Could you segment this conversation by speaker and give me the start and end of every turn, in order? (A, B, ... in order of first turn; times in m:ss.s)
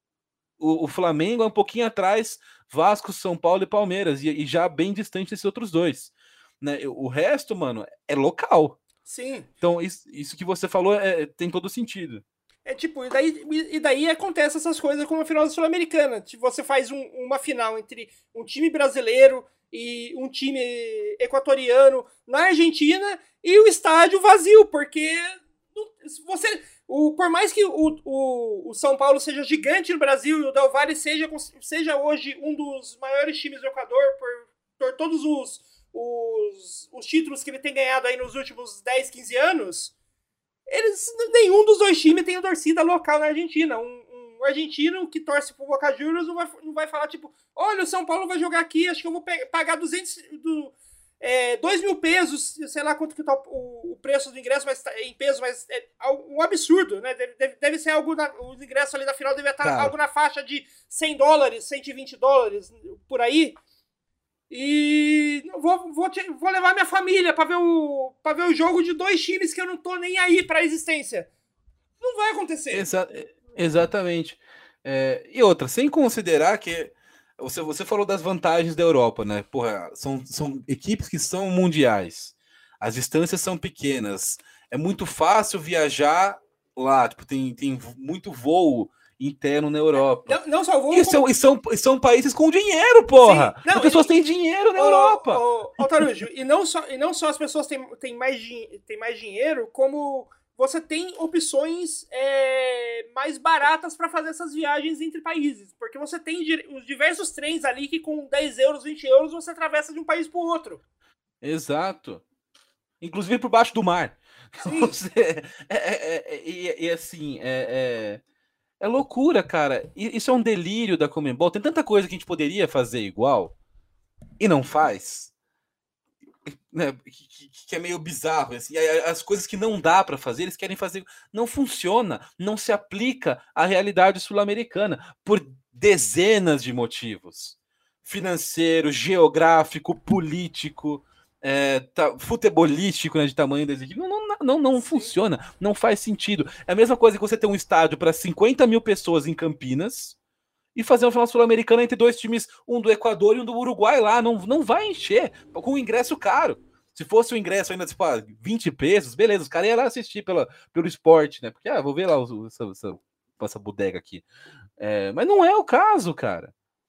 0:00.6-0:08.8 A
0:09.0-0:09.5 B
0:09.6-0:12.2 A
0:12.6-0:39.9 B
0:40.7-1:03.6 B
0:59.6-0:59.9 A
1:04.5-1:11.3 B
1:12.0-1:12.9 B
1:12.7-1:30.4 A
1:30.0-1:31.2 B
1:30.9-1:36.0 A
1:33.2-1:34.1 B
1:34.8-1:50.8 B
1:51.4-1:52.2 A
1:53.0-1:58.2 A
1:54.6-1:54.9 B
1:58.8-2:03.5 A
2:04.4-2:05.3 A
2:06.4-2:30.2 A
2:24.8-2:25.1 B
2:30.7-2:44.2 A
2:44.8-2:46.5 A